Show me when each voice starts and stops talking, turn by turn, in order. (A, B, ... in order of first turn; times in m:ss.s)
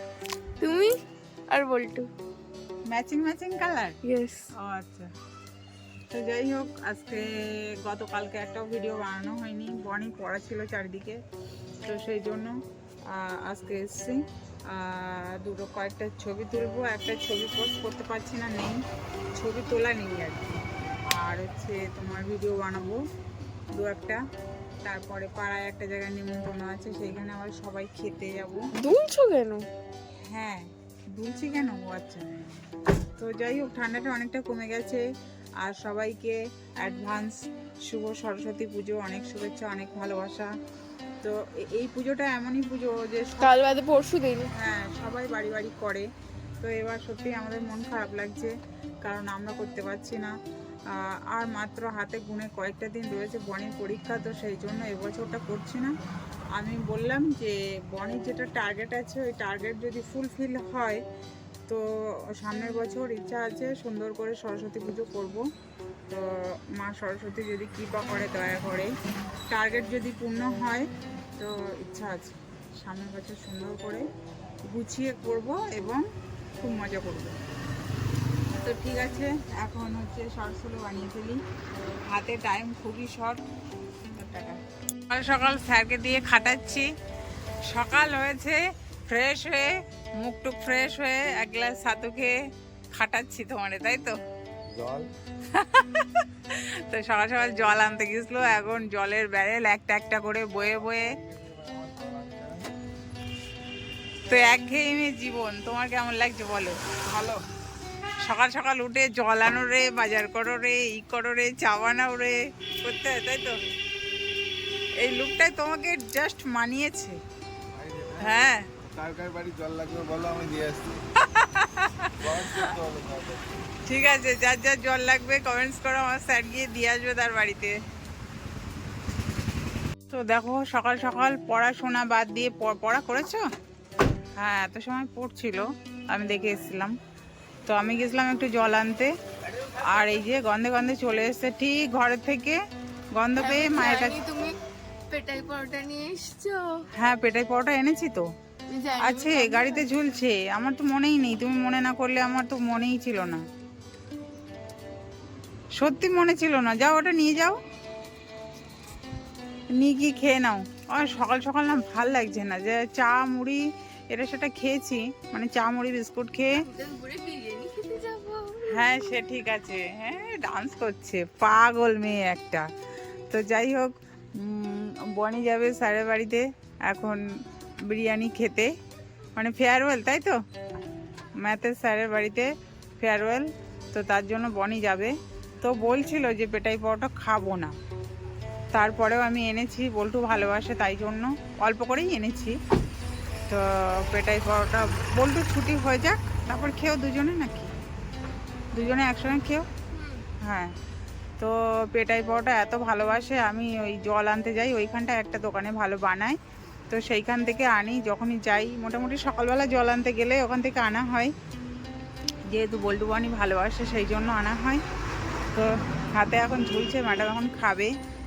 0:00.6-0:00.9 A
0:01.5-0:02.1 A
0:02.9-0:04.0 B
0:04.0-0:04.5 A
0:04.6-0:05.1 B
0:06.1-0:07.2 B
0:07.8-0:11.2 B
0:11.8-0:12.5 B
0:13.1-0:14.2 B
0:14.7-0:18.8 B
0:19.4-0:20.6 B
0:21.1-0:23.0 B
0:23.8-0:24.2 B
0:24.8-0:28.7 B
0:28.7-0:29.6 A
0:30.3-0:32.3 B
0:33.2-0:35.0 B
0:35.6-0:40.5 B
0:41.2-0:43.5 B
0:43.4-0:44.5 A
0:44.5-0:46.1 B
0:46.6-0:50.3 B
0:51.3-0:55.9 B
0:56.6-1:01.0 B
1:02.4-1:05.4 B
1:06.8-1:08.9 B
1:09.5-1:14.0 B
1:14.7-1:16.0 B
1:16.6-1:17.4 B
1:18.6-1:21.4 B
1:22.0-1:23.4 B
1:24.1-1:24.6 B
1:25.1-1:26.9 B
1:27.7-1:32.3 B
1:32.9-1:34.2 B
1:34.7-1:35.1 C
1:35.5-1:41.1 B
1:41.0-1:42.7 C
1:44.3-1:47.0 B
1:48.2-1:53.6 B
1:55.0-1:57.2 B
1:57.8-1:58.3 C
1:58.2-1:58.7 B
1:59.0-2:00.8 C
2:01.2-2:02.7 B
2:02.3-2:03.5 C
2:03.8-2:07.8 B
2:10.1-2:13.4 B
2:14.4-2:16.9 B
2:17.7-2:19.1 B
2:19.7-2:22.6 B
2:23.2-2:24.2 B
2:23.4-2:24.5 A
2:25.1-2:26.6 A
2:27.0-2:28.2 B
2:28.7-2:29.9 A
2:29.0-2:33.4 B
2:35.8-2:37.6 B
2:39.7-2:43.6 B
2:44.1-2:46.5 B
2:46.6-2:49.1 A
2:48.7-2:52.6 B
2:53.3-2:57.2 B
2:57.9-2:58.7 B
2:59.4-3:00.4 B
3:01.4-3:02.5 B
3:03.0-3:07.7 B
3:08.7-3:12.6 B
3:13.5-3:17.7 B
3:18.7-3:19.7 B
3:19.9-3:20.2 A
3:20.4-3:20.7 B
3:21.4-3:26.4 B
3:26.9-3:31.3 B
3:32.5-3:34.8 B
3:35.5-3:37.9 B